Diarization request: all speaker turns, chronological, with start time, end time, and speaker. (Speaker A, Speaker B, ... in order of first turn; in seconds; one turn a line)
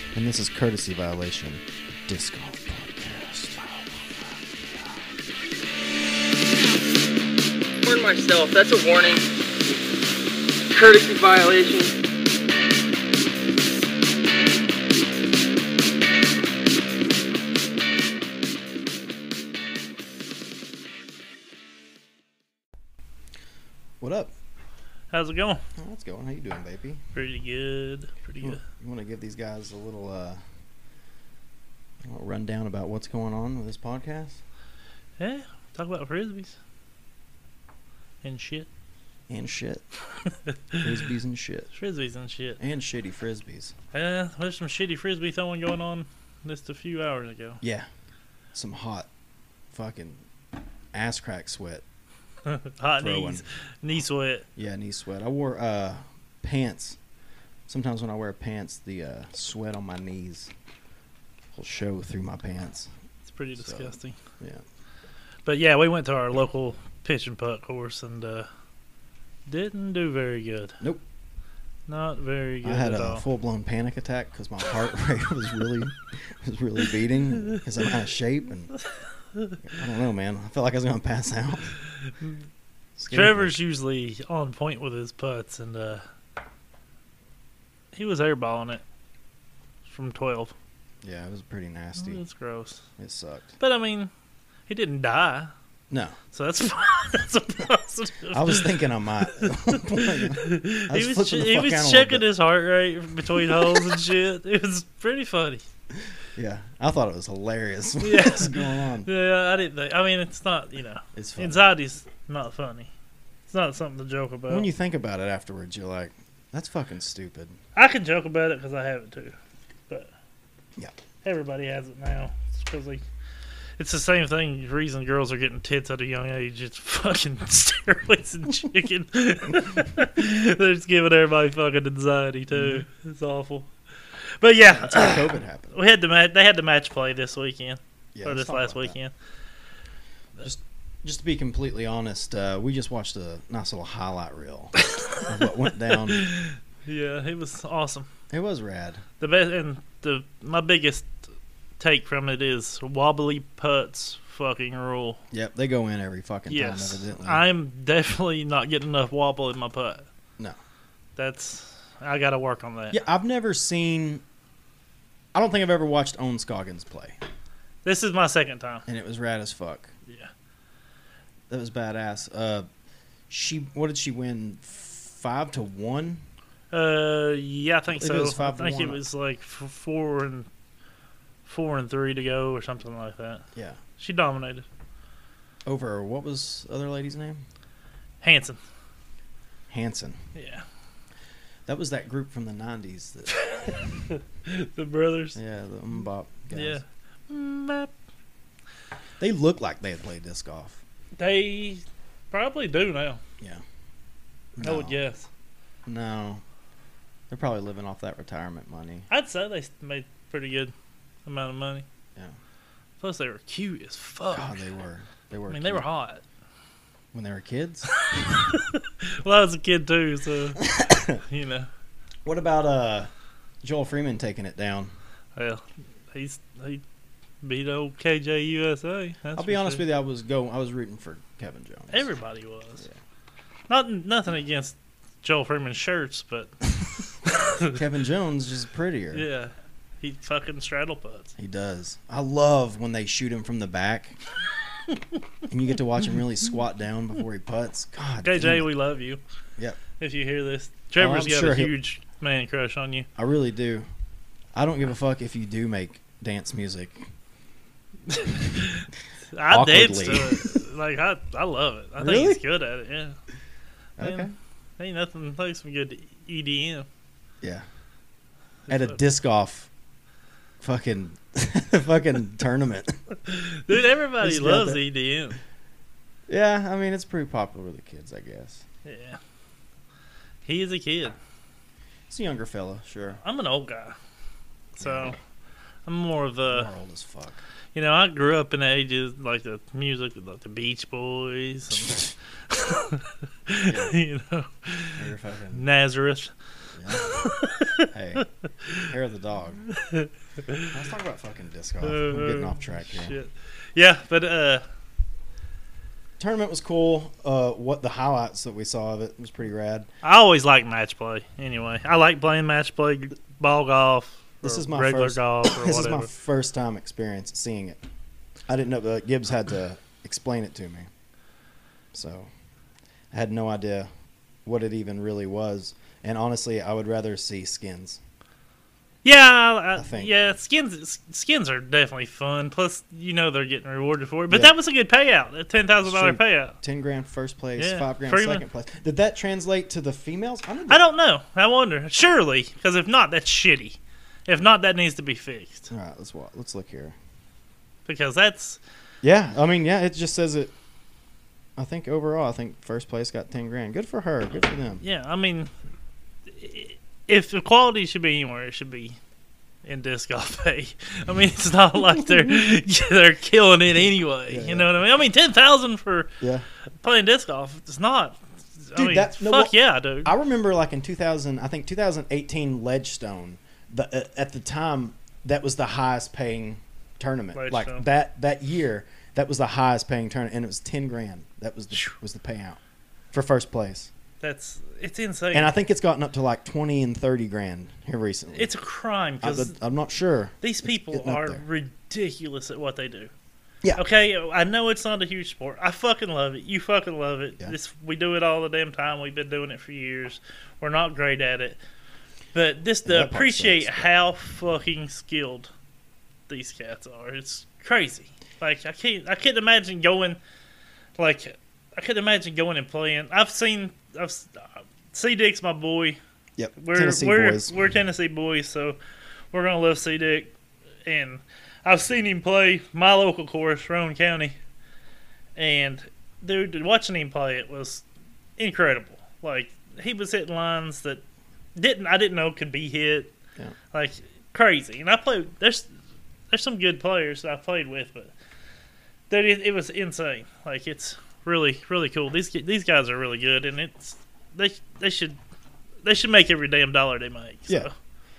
Speaker A: 0.1-4.1
Speaker B: 7.8-9.2
Speaker B: 10.7-11.9
Speaker A: 24.0-24.3
Speaker C: 25.1-25.6
Speaker A: 25.8-27.0
Speaker C: 27.1-28.6
Speaker A: 28.4-30.4
Speaker A: 32.0-34.4
Speaker C: 35.2-36.5
Speaker C: 38.2-38.7
Speaker A: 39.3-39.8
Speaker C: 40.2-40.9
Speaker A: 40.8-41.7
Speaker C: 41.7-42.6
Speaker A: 42.6-43.7
Speaker C: 43.9-47.6
Speaker A: 47.6-47.9
Speaker A: 48.5-49.1
Speaker A: 49.7-50.2
Speaker A: 50.9-51.8
Speaker C: 52.4-54.5
Speaker A: 53.0-53.4
Speaker A: 54.5-57.0
Speaker A: 57.7-60.5
Speaker A: 61.5-62.9
Speaker C: 63.3-64.2
Speaker A: 63.6-64.6
Speaker C: 65.4-68.5
Speaker C: 69.5-70.8
Speaker C: 71.9-73.2
Speaker A: 72.6-78.8
Speaker A: 79.6-81.8
Speaker A: 83.0-83.5
Speaker C: 83.1-86.0
Speaker C: 87.9-88.8
Speaker C: 89.8-90.5
Speaker A: 91.0-92.2
Speaker C: 92.0-92.8
Speaker A: 93.0-93.6
Speaker C: 93.6-94.1
Speaker C: 94.7-95.5
Speaker A: 95.9-96.2
Speaker C: 96.3-98.7
Speaker A: 98.3-102.2
Speaker C: 99.2-105.6
Speaker A: 106.3-109.1
Speaker C: 108.0-112.9
Speaker A: 111.1-111.7
Speaker C: 113.5-114.7
Speaker A: 114.5-117.6
Speaker C: 117.7-119.3
Speaker C: 121.2-123.0
Speaker C: 123.8-133.7
Speaker A: 132.5-132.8
Speaker C: 134.4-139.1
Speaker A: 134.6-135.7
Speaker A: 138.1-138.9
Speaker A: 140.4-146.3
Speaker C: 144.8-148.1
Speaker A: 148.3-149.0
Speaker C: 149.2-151.2
Speaker C: 151.8-155.2
Speaker A: 155.3-157.4
Speaker C: 156.5-160.1
Speaker C: 161.2-163.0
Speaker A: 162.9-164.2
Speaker A: 165.3-167.2
Speaker C: 167.8-168.8
Speaker A: 168.9-169.9
Speaker A: 171.5-172.7
Speaker A: 173.3-176.2
Speaker C: 176.7-180.5
Speaker A: 177.9-179.0
Speaker C: 181.4-183.4
Speaker A: 183.5-183.8
Speaker C: 184.0-184.7
Speaker A: 185.7-187.4
Speaker C: 188.2-188.6
Speaker A: 189.7-190.2
Speaker C: 190.3-190.6
Speaker A: 191.7-193.4
Speaker C: 193.3-195.4
Speaker A: 195.3-196.8
Speaker C: 196.5-197.9
Speaker A: 199.2-200.8
Speaker C: 201.2-203.2
Speaker A: 204.6-205.0
Speaker C: 204.6-205.3
Speaker A: 205.8-206.4
Speaker A: 207.3-209.1
Speaker C: 209.1-210.7
Speaker C: 211.2-211.8
Speaker C: 213.0-214.6
Speaker A: 214.3-215.8
Speaker C: 215.5-216.2
Speaker A: 217.1-217.9
Speaker C: 217.9-220.6
Speaker A: 220.6-221.2
Speaker C: 221.1-221.7
Speaker A: 222.2-223.1
Speaker A: 223.6-224.9
Speaker C: 225.3-226.8
Speaker C: 227.4-229.8
Speaker A: 229.3-232.0
Speaker C: 231.9-232.8
Speaker C: 233.7-237.7
Speaker A: 237.5-239.2
Speaker C: 239.1-241.3
Speaker A: 241.4-244.2
Speaker A: 245.5-248.7
Speaker C: 248.2-249.2
Speaker C: 250.0-253.1
Speaker A: 251.0-251.7
Speaker A: 253.2-253.8
Speaker A: 254.5-257.1
Speaker C: 258.1-263.2
Speaker A: 259.5-260.6
Speaker A: 262.0-262.4
Speaker A: 264.0-264.3
Speaker C: 264.0-264.3
Speaker C: 264.8-266.9
Speaker A: 268.7-269.7
Speaker C: 268.7-268.9
Speaker A: 270.6-273.0
Speaker C: 273.2-275.4
Speaker A: 274.2-274.8
Speaker A: 276.3-278.6
Speaker C: 278.8-279.2
Speaker C: 280.4-281.2
Speaker A: 282.1-283.2
Speaker C: 283.2-284.0
Speaker C: 284.8-285.2
Speaker A: 284.8-285.1
Speaker C: 285.8-286.7
Speaker A: 286.5-287.4
Speaker C: 287.7-295.0
Speaker A: 291.8-292.1
Speaker A: 293.6-293.9
Speaker A: 294.9-295.6
Speaker C: 295.5-296.3
Speaker A: 296.8-297.3
Speaker C: 296.9-298.8
Speaker A: 297.9-299.6
Speaker C: 299.7-300.7
Speaker A: 300.6-303.1
Speaker C: 301.8-304.6
Speaker A: 306.2-309.9
Speaker C: 310.0-316.1
Speaker A: 314.4-317.8
Speaker A: 318.5-320.9
Speaker A: 321.9-322.3
Speaker A: 323.1-323.9
Speaker A: 324.4-328.0
Speaker C: 329.0-336.6
Speaker A: 329.8-330.1
Speaker A: 334.3-334.5
Speaker A: 335.8-340.8
Speaker C: 337.6-338.4
Speaker C: 340.7-345.7
Speaker A: 345.7-346.9
Speaker C: 347.9-348.6
Speaker A: 349.0-350.5
Speaker A: 351.6-354.8
Speaker C: 354.8-355.5
Speaker C: 356.3-359.0
Speaker C: 359.6-366.1
Speaker A: 364.3-364.7
Speaker A: 366.2-366.4
Speaker C: 366.8-370.1
Speaker A: 368.8-369.5
Speaker A: 370.0-382.6
Speaker C: 377.3-377.9
Speaker A: 383.1-383.9
Speaker C: 384.2-385.5
Speaker A: 385.3-388.5
Speaker C: 388.3-389.6
Speaker A: 389.2-391.4
Speaker C: 390.4-393.1
Speaker C: 393.8-401.6
Speaker C: 402.3-405.5
Speaker A: 402.8-403.9
Speaker C: 406.3-410.2
Speaker C: 411.0-416.0
Speaker A: 416.4-417.5
Speaker C: 416.6-418.8
Speaker C: 419.3-420.3
Speaker C: 420.8-424.4
Speaker C: 425.4-427.8
Speaker C: 428.4-431.0
Speaker C: 431.5-433.1
Speaker C: 433.7-435.7
Speaker C: 436.3-438.1
Speaker C: 439.1-445.2
Speaker C: 445.8-447.7